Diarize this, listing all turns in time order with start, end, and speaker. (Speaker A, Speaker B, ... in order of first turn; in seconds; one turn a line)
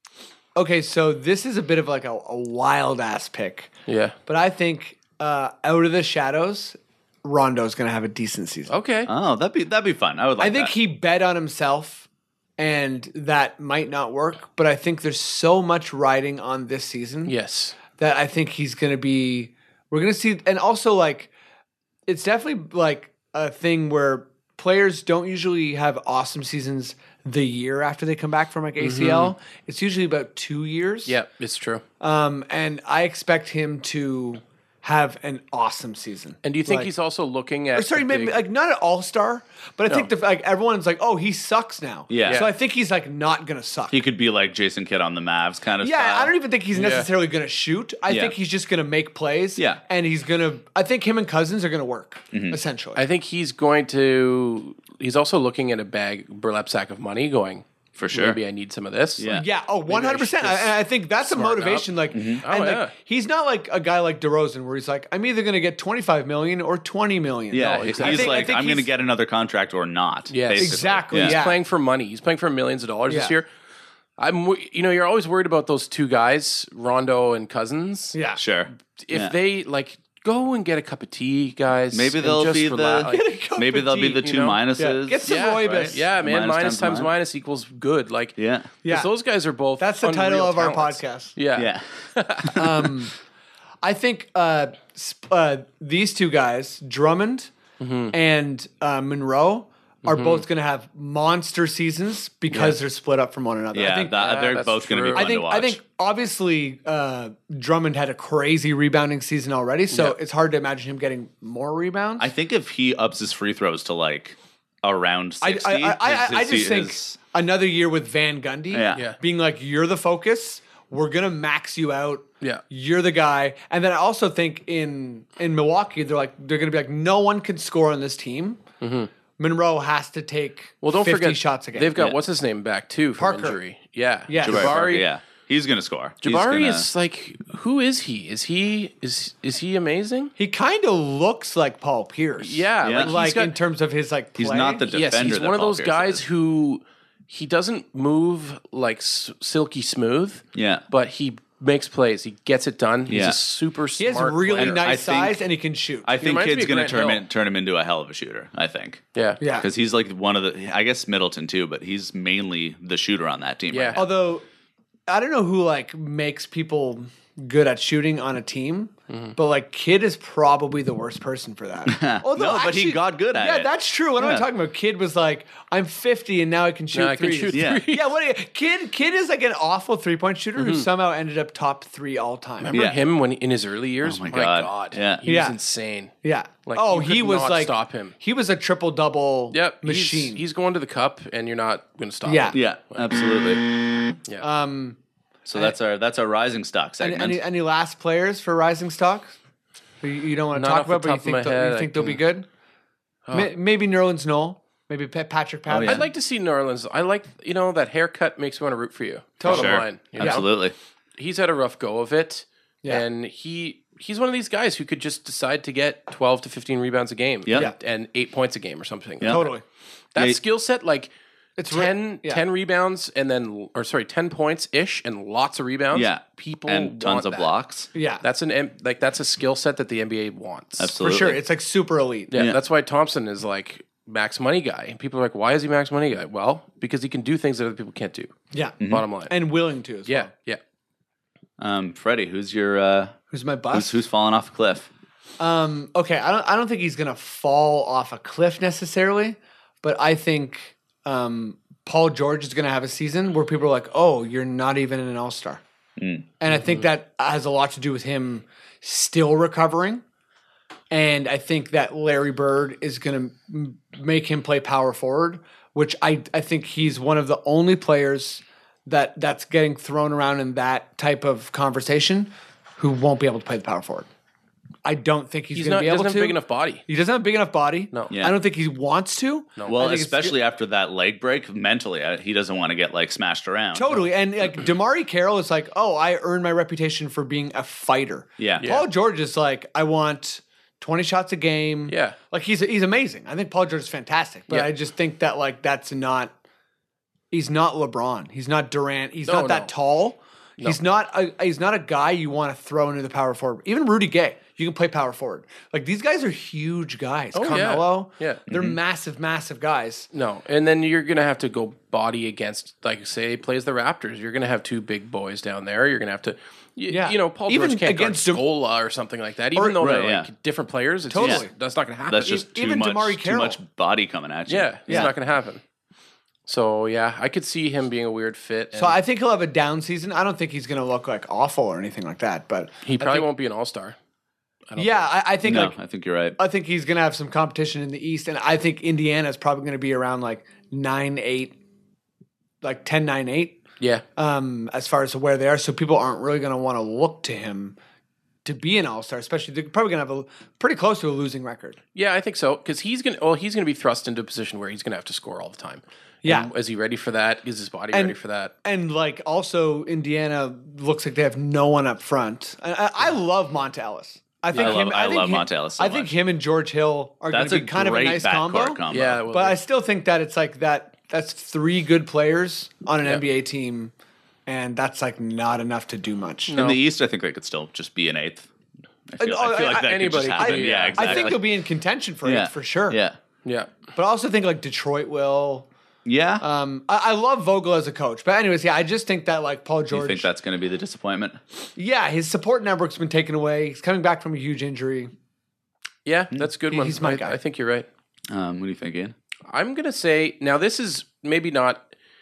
Speaker A: 0.6-3.7
Speaker B: 3.9-4.2
Speaker A: 4.3-8.7
Speaker B: 8.7-9.1
Speaker C: 9.1-10.7
Speaker A: 10.4-12.1
Speaker A: 12.6-21.3
Speaker B: 17.3-17.8
Speaker A: 22.1-31.2
Speaker B: 28.8-29.3
Speaker B: 31.1-31.8
Speaker A: 32.0-36.9
Speaker B: 36.4-38.4
Speaker A: 37.8-44.0
Speaker C: 42.1-42.4
Speaker B: 42.2-42.5
Speaker C: 43.9-46.3
Speaker A: 45.8-53.0
Speaker B: 46.7-47.1
Speaker C: 48.1-48.3
Speaker C: 52.3-52.6
Speaker B: 53.0-59.3
Speaker C: 58.0-58.4
Speaker C: 59.2-59.5
Speaker A: 59.3-68.9
Speaker B: 59.9-60.8
Speaker B: 61.3-62.9
Speaker C: 62.1-62.4
Speaker C: 67.5-71.4
Speaker B: 67.6-68.5
Speaker B: 70.3-73.5
Speaker A: 70.6-71.6
Speaker A: 73.1-73.3
Speaker B: 74.2-78.2
Speaker A: 78.1-78.4
Speaker C: 78.4-79.3
Speaker B: 78.8-83.2
Speaker C: 81.9-87.1
Speaker A: 83.1-86.1
Speaker B: 84.2-84.6
Speaker B: 85.2-92.7
Speaker C: 88.4-88.7
Speaker A: 88.8-89.1
Speaker A: 89.8-91.3
Speaker C: 91.6-91.9
Speaker A: 92.5-93.1
Speaker A: 93.8-97.5
Speaker B: 97.8-98.1
Speaker A: 98.1-104.6
Speaker B: 100.0-100.5
Speaker B: 102.5-102.8
Speaker C: 103.7-105.8
Speaker B: 104.2-105.3
Speaker A: 105.1-112.3
Speaker C: 112.2-117.2
Speaker A: 115.4-128.6
Speaker C: 118.7-119.1
Speaker B: 128.8-129.1
Speaker A: 129.4-132.0
Speaker B: 130.8-135.1
Speaker A: 133.2-133.6
Speaker A: 134.3-134.8
Speaker C: 134.4-136.9
Speaker B: 136.2-140.3
Speaker A: 140.4-144.9
Speaker B: 142.4-143.6
Speaker C: 142.8-143.1
Speaker C: 144.4-146.2
Speaker B: 144.9-154.9
Speaker C: 150.6-150.8
Speaker C: 153.1-153.4
Speaker A: 154.0-156.1
Speaker C: 154.6-155.4
Speaker C: 156.1-164.1
Speaker B: 156.2-157.3
Speaker B: 159.2-159.4
Speaker A: 159.4-159.7
Speaker B: 163.7-164.1
Speaker A: 163.9-164.4
Speaker A: 165.1-182.8
Speaker C: 171.9-174.4
Speaker B: 176.9-178.1
Speaker C: 177.5-177.8
Speaker B: 180.6-180.9
Speaker B: 182.6-186.1
Speaker C: 182.7-183.0
Speaker C: 184.0-185.2
Speaker A: 185.3-185.6
Speaker A: 186.2-190.4
Speaker B: 186.7-188.2
Speaker B: 189.5-193.1
Speaker A: 192.3-192.6
Speaker C: 192.5-193.6
Speaker A: 194.4-195.0
Speaker C: 195.5-197.4
Speaker A: 197.0-199.4
Speaker A: 200.0-202.5
Speaker B: 200.5-202.2
Speaker A: 203.3-206.0
Speaker C: 205.7-206.1
Speaker B: 205.7-210.5
Speaker A: 209.4-210.4
Speaker C: 209.4-210.8
Speaker B: 211.2-219.5
Speaker C: 219.2-219.5
Speaker A: 219.2-219.6
Speaker B: 220.2-221.1
Speaker A: 221.6-222.4
Speaker B: 221.7-227.5
Speaker C: 225.9-227.9
Speaker A: 227.9-228.2
Speaker B: 228.2-230.9
Speaker C: 230.8-231.4
Speaker A: 231.0-232.4
Speaker B: 232.3-239.3
Speaker A: 238.5-240.3
Speaker B: 240.1-240.6
Speaker C: 241.6-243.2
Speaker A: 243.3-244.0
Speaker C: 243.7-244.9
Speaker A: 245.4-255.6
Speaker C: 256.0-256.3
Speaker A: 256.4-260.0
Speaker B: 256.5-256.8
Speaker A: 260.9-274.1
Speaker A: 274.9-280.4
Speaker B: 275.5-276.9
Speaker C: 279.7-284.0
Speaker A: 283.7-296.3
Speaker C: 288.4-288.7
Speaker B: 288.6-288.9
Speaker B: 291.9-292.2
Speaker A: 297.3-310.1
Speaker B: 299.2-299.7
Speaker B: 307.3-308.4
Speaker C: 308.5-308.8
Speaker B: 310.1-322.4
Speaker A: 316.9-318.4
Speaker A: 319.6-320.0
Speaker C: 319.8-320.3
Speaker A: 321.1-321.5
Speaker C: 322.1-325.1
Speaker A: 322.2-323.6
Speaker B: 324.5-325.6
Speaker B: 326.5-329.0
Speaker A: 328.7-333.3
Speaker B: 332.8-334.0
Speaker B: 334.7-335.1
Speaker A: 334.8-335.8
Speaker C: 335.4-336.4
Speaker A: 336.4-341.6
Speaker A: 342.6-343.6
Speaker A: 344.2-347.8
Speaker A: 348.4-351.8
Speaker B: 351.9-358.5
Speaker A: 356.2-356.5
Speaker A: 357.9-373.9
Speaker C: 364.5-366.1
Speaker C: 367.3-369.2
Speaker B: 368.9-369.6
Speaker A: 374.5-376.6
Speaker B: 376.5-376.8
Speaker C: 376.5-378.5
Speaker C: 379.1-381.5
Speaker A: 379.2-383.0
Speaker B: 379.6-381.4
Speaker C: 382.2-383.2
Speaker B: 383.4-383.8
Speaker A: 383.9-385.7
Speaker C: 386.1-386.4
Speaker A: 386.4-390.3
Speaker C: 389.9-391.4
Speaker A: 391.8-395.1
Speaker B: 396.1-397.9
Speaker A: 396.7-397.4
Speaker C: 398.3-399.1
Speaker B: 399.5-401.9